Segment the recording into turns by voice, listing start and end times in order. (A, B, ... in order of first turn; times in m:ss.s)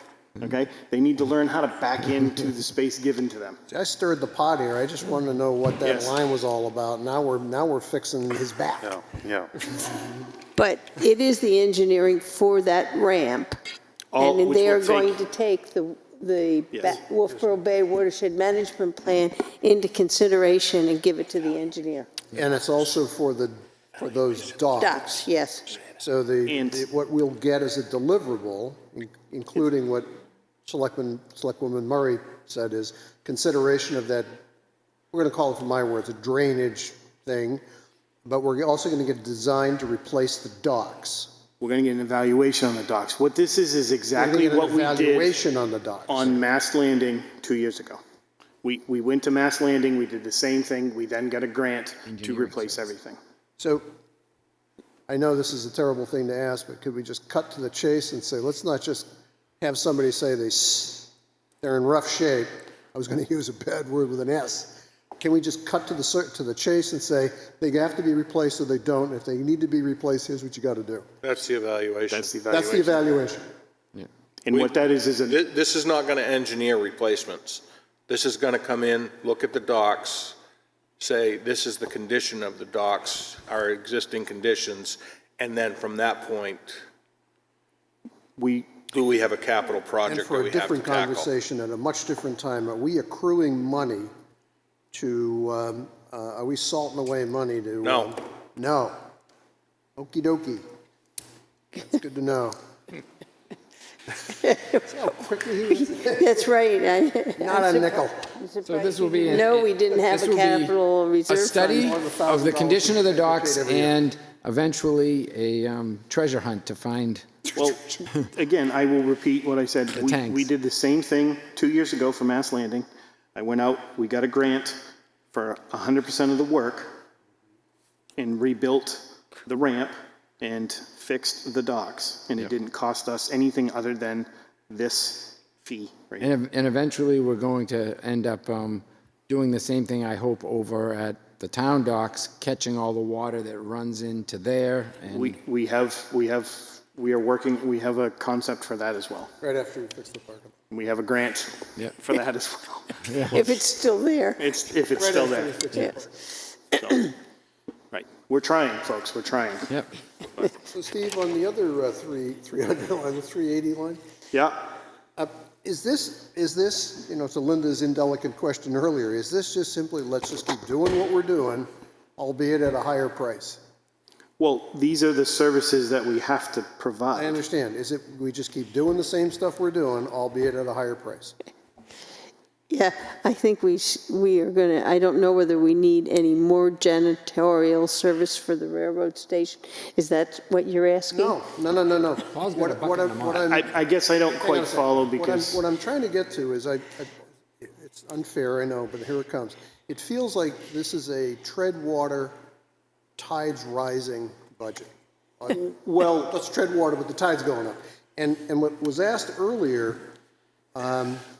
0:00.4-0:03.6 A
0:03.7-0:09.2 B
0:05.8-0:06.1 A
0:09.7-0:10.1 B
0:10.5-0:13.6 C
0:14.1-0:15.1 A
0:14.2-0:22.1 C
0:16.7-0:17.0 A
0:22.3-0:25.2 B
0:24.8-0:25.7 C
0:25.9-0:30.1 B
0:26.5-0:26.8 A
0:30.6-0:34.3 B
0:35.1-0:37.6 B
0:38.2-0:41.3 B
0:41.6-0:45.4 A
0:44.2-0:46.4 B
0:46.1-0:48.0 A
0:48.6-0:53.2 A
0:52.1-0:52.9 D
0:53.6-0:53.8 B
0:55.1-0:59.1 B
0:59.6-1:11.1 B
1:11.2-1:12.3 E
1:12.1-1:13.0 A
1:12.5-1:13.4 B
1:14.4-1:15.4 A
1:14.5-1:20.4 E
1:21.0-1:26.8 E
1:28.4-1:28.7 A
1:28.9-1:31.3 E
1:30.0-1:34.1 B
1:34.9-1:39.0 B
1:37.8-1:38.1 E
1:40.0-1:40.6 B
1:41.7-1:42.6 B
1:44.3-1:44.9 C
1:44.9-1:46.4 B
1:46.0-1:51.7 C
1:47.4-1:48.3 B
1:48.6-1:50.7 D
1:51.3-1:57.4 D
1:51.5-1:54.0 B
1:57.5-2:04.8 A
2:00.0-2:00.5 D
2:05.3-2:06.9 A
2:08.2-2:16.3 A
2:16.2-2:25.4 D
2:25.1-2:29.3 A
2:29.4-2:30.6 B
2:30.7-2:33.2 A
2:33.1-2:33.4 D
2:33.3-2:34.4 C
2:34.4-2:35.6 A
2:34.9-2:36.2 B
2:36.8-2:37.1 A
2:37.9-2:39.7 A
2:40.7-2:44.0 B
2:44.3-2:44.7 A
2:45.2-2:53.6 B
2:54.4-2:57.4 A
2:57.1-3:01.3 B
3:02.7-3:11.4 C
3:11.1-3:13.6 B
3:12.3-3:13.5 D
3:13.5-3:15.6 A
3:14.4-3:22.3 B
3:23.2-3:30.1 B
3:25.5-3:26.3 A
3:30.7-3:31.2 B